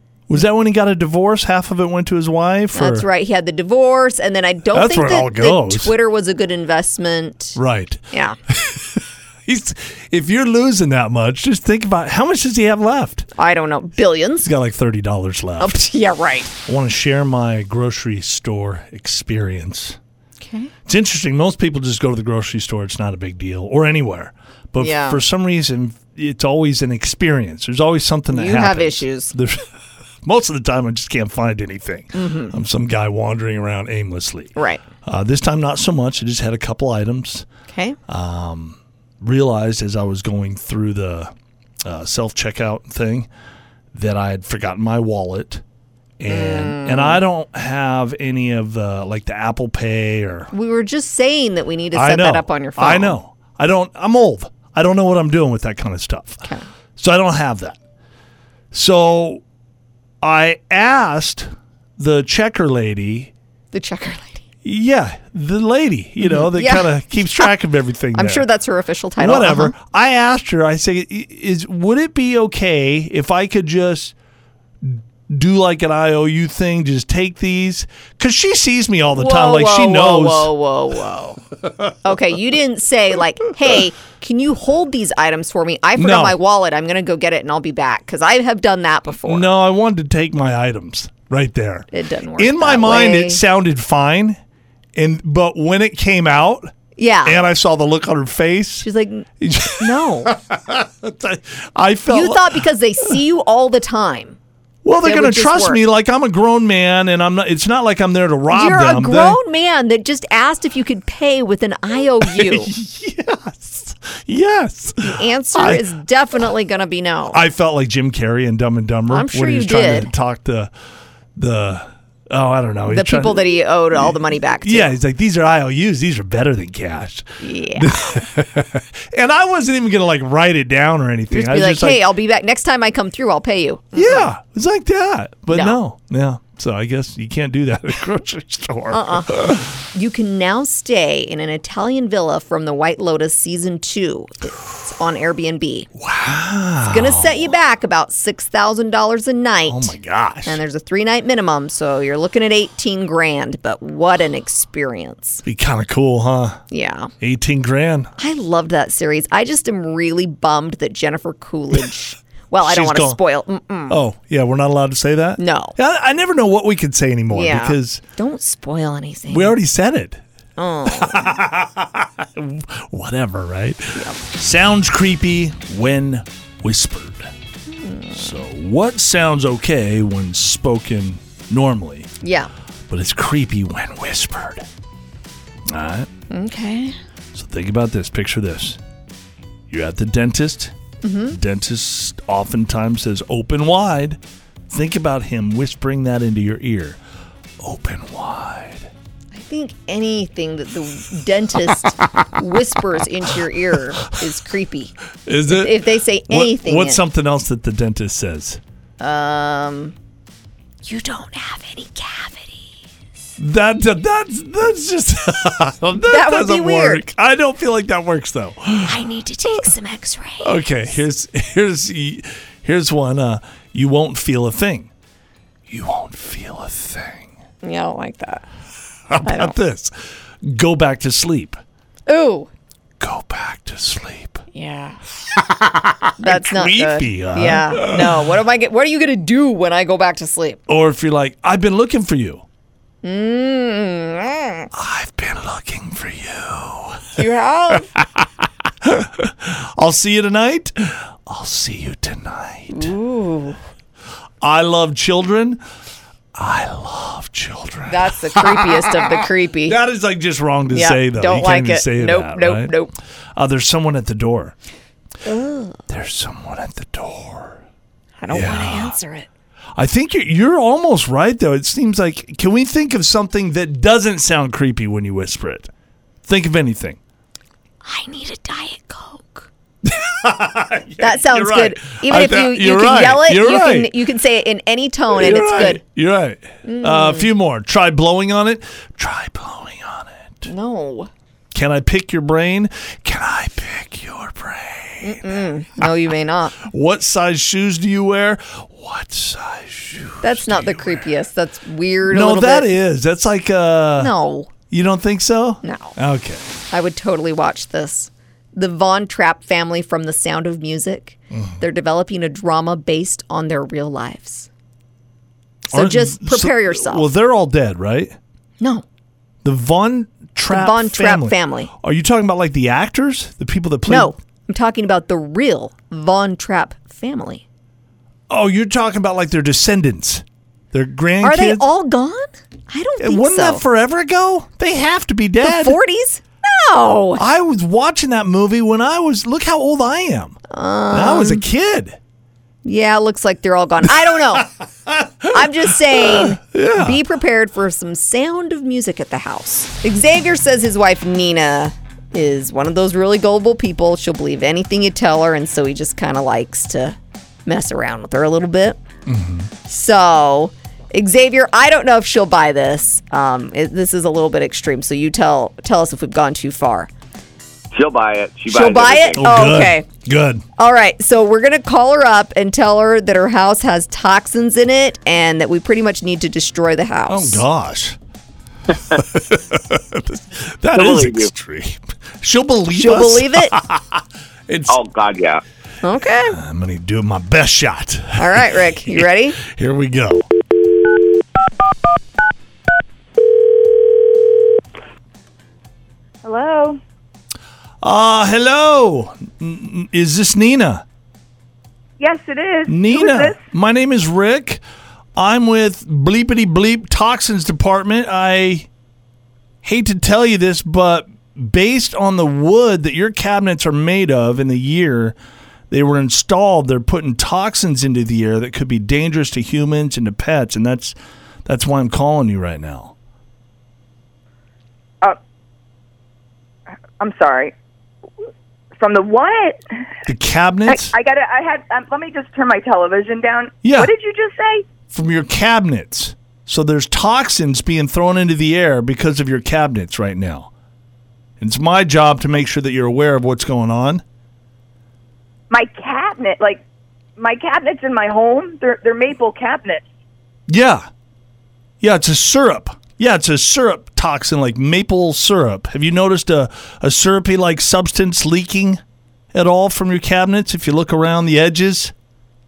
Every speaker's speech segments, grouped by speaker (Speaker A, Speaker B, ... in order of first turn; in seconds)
Speaker A: 0.3-3.0, 4.7-5.9, 7.5-13.3, 14.4-15.8, 16.6-20.0, 20.8-29.6, 30.2-37.5, 38.1-41.3, 41.8-43.3, 43.9-45.6, 46.2-50.5, 51.9-56.4, 57.0-57.8, 58.7-59.4, 60.2-63.3, 64.6-68.5, 69.2-74.1, 74.8-80.5, 86.0-86.4, 89.2-94.4, 94.9-96.7, 97.2-98.8, 99.4-102.6, 104.8-109.4, 112.2-115.8, 117.3-120.7, 121.3-132.0, 133.9-139.6, 145.9-147.5, 149.7-150.6, 155.4-156.6, 157.2-158.1, 162.6-163.2, 163.9-168.0, 169.3-170.2, 170.8-177.3, 178.1-182.1, 182.9-184.7, 185.7-186.1, 187.3-188.8, 189.7-190.7, 191.3-197.0, 197.6-198.9, 205.2-208.6, 213.4-219.0, 220.4-224.9, 225.7-227.3, 229.1-231.6, 233.0-234.4, 235.3-238.3, 240.7-242.4, 244.7-247.2, 247.9-252.9, 254.4-255.6, 256.3-262.7, 263.4-264.5, 265.9-267.6, 268.3-268.9, 269.8-275.7, 276.2-277.0, 279.8-283.9, 285.1-290.5, 291.5-295.9, 296.6-301.1, 302.1-304.1, 304.7-306.4, 311.3-311.6, 315.7-318.2, 319.4-324.1, 328.3-331.6, 333.0-335.8, 337.2-340.4, 340.9-342.0, 344.4-347.0, 359.1-359.5, 369.1-370.4, 377.1-378.0, 378.9-384.8, 386.3-390.2, 397.8-400.8, 402.7-404.6, 405.1-408.7, 409.6-415.1, 415.7-422.9, 430.1-430.9, 433.6-433.9, 434.9-440.5, 441.4-444.0, 450.5-450.9, 451.8-458.8, 459.3-461.9
Speaker B: 2.7-7.6, 8.1-8.4, 13.3-14.5, 15.6-16.5, 20.4-20.7, 24.8-25.2, 28.3-29.3, 32.1-32.5, 34.5-34.8, 37.7-38.0, 46.3-47.2, 50.5-53.2, 63.7-64.4, 66.2-67.5, 68.1-69.7, 79.1-81.4, 82.0-89.5, 91.9-93.4, 97.0-97.4, 98.8-99.3, 99.8-100.3, 102.1-104.4, 105.0-105.8, 108.5-112.7, 115.0-117.4, 119.1-120.1, 122.9-124.9, 127.4-128.2, 131.3-134.3, 135.5-135.8, 138.9-145.9, 146.8-149.9, 150.4-155.4, 156.7-157.1, 158.2-164.0, 165.4-165.8, 167.3-169.6, 170.6-171.3, 177.7-178.4, 182.2-182.5, 186.3-187.0, 191.0-191.4, 199.3-204.9, 205.5-207.0, 209.0-209.9, 210.8-212.7, 216.0-217.0, 218.8-220.6, 227.6-228.4, 229.2-229.5, 232.1-232.5, 234.5-235.0, 236.2-240.6, 243.0-244.7, 247.2-247.9, 252.7-253.6, 257.9-259.8, 260.7-262.9, 265.2-265.8, 268.2-269.3, 277.8-279.5, 281.0-285.8, 286.6-287.3, 290.4-291.1, 295.0-296.6, 300.2-302.8, 304.0-304.5, 305.6-305.9, 306.7-314.5, 315.7-317.1, 318.6-318.8, 320.5-321.7, 323.9-327.4, 331.2-333.6, 335.4-337.2, 340.5-341.4, 342.6-344.5, 345.3-358.8, 359.6-366.9, 368.5-369.9, 370.6-377.4, 382.7-383.6, 385.8-386.4, 388.1-389.4
Speaker C: 367.7-369.2, 380.7-381.3, 384.7-385.4
Speaker D: 396.2-396.8, 402.0-403.4, 427.0-427.5, 428.7-429.6, 430.6-434.7, 445.5-446.6, 447.2-449.9